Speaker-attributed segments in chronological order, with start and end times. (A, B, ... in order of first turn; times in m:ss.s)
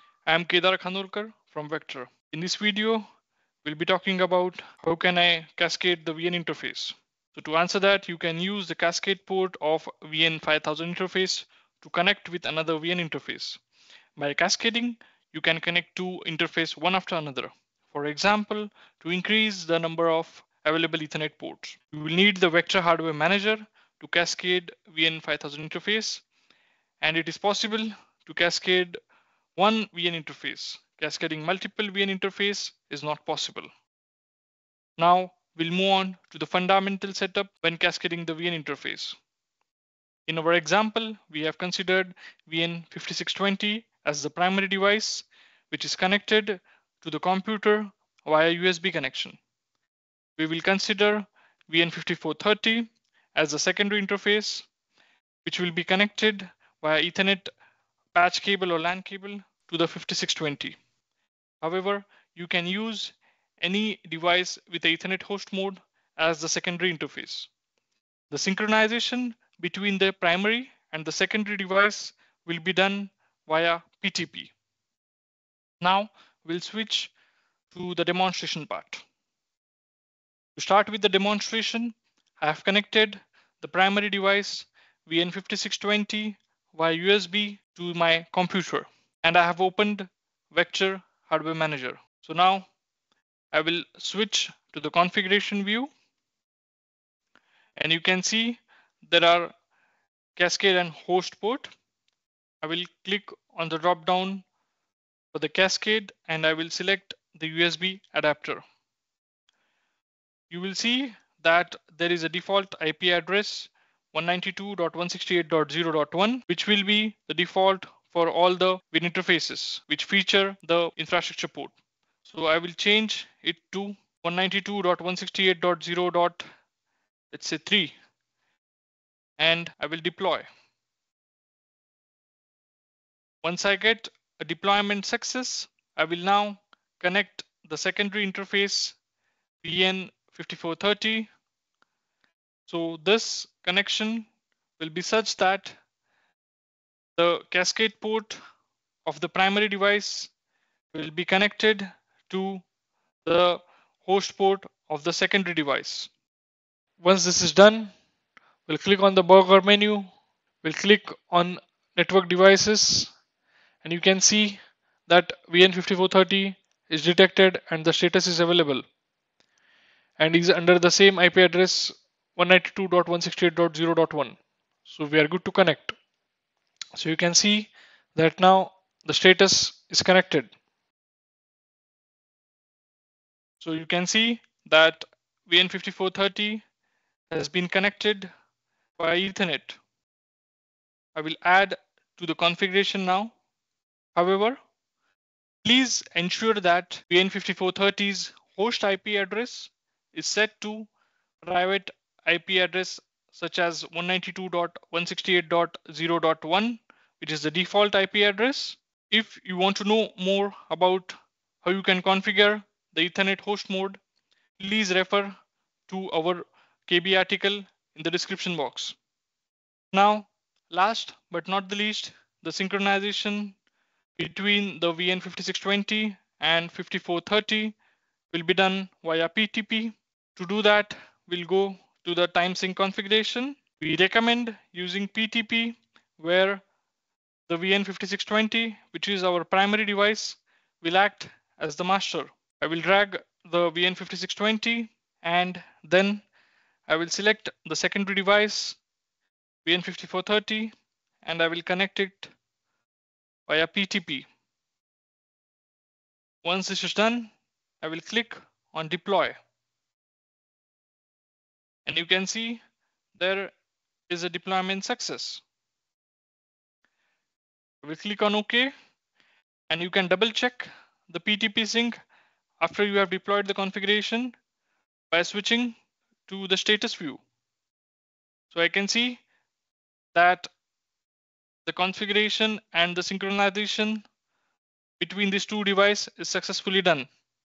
0:00.2-0:03.0 A
0:03.6-0:13.6 A
0:14.2-0:26.2 A
0:27.0-0:29.0 A
0:29.6-0:33.7 A
0:35.0-0:39.2 A
0:40.2-0:49.4 A
0:50.4-0:54.7 A
0:55.4-0:57.5 A
0:58.1-1:00.8 A
1:01.6-1:07.5 A
1:08.3-1:14.5 A
1:15.8-1:17.1 A
1:17.7-1:19.0 A
1:20.6-1:32.7 A
1:33.5-1:35.9 A
1:37.8-1:39.5 A
1:40.4-1:41.7 A
1:42.6-1:44.4 A
1:45.3-1:48.6 A
1:50.5-2:06.4 A
2:07.3-2:07.9 A
2:09.4-2:10.5 A
2:13.4-2:19.0 A
2:19.6-2:21.3 A
2:22.6-2:25.8 A
2:27.2-2:28.4 A
2:29.0-2:30.3 A
2:30.9-2:32.6 A
2:33.2-2:36.1 A
2:37.0-2:37.9 A
2:38.6-2:40.1 A
2:40.6-2:43.1 A
2:43.8-2:48.8 A
2:50.2-2:56.0 A
2:56.9-3:00.5 A
3:03.6-3:06.6 A
3:07.3-3:08.3 A
3:09.0-3:09.8 A
3:11.1-3:13.3 A
3:14.1-3:14.6 A
3:15.6-3:20.9 A
3:21.4-3:34.0 A
3:34.6-3:35.3 A
3:35.9-3:39.0 A
3:39.9-3:43.6 A
3:44.2-3:47.8 A
3:48.3-3:56.6 A
3:57.5-4:06.2 A
4:06.9-4:08.8 A
4:09.6-4:12.3 A
4:13.5-4:14.3 A
4:16.4-4:19.4 A
4:21.8-4:22.6 A
4:23.1-4:23.5 A
4:24.1-4:25.4 A
4:27.8-4:28.7 A
4:29.7-4:31.9 A
4:32.6-4:34.3 A
4:35.1-4:35.7 A
4:36.3-4:37.2 A
4:38.5-4:39.2 A
4:40.1-4:40.5 A
4:41.6-4:44.0 A
4:45.0-4:47.1 A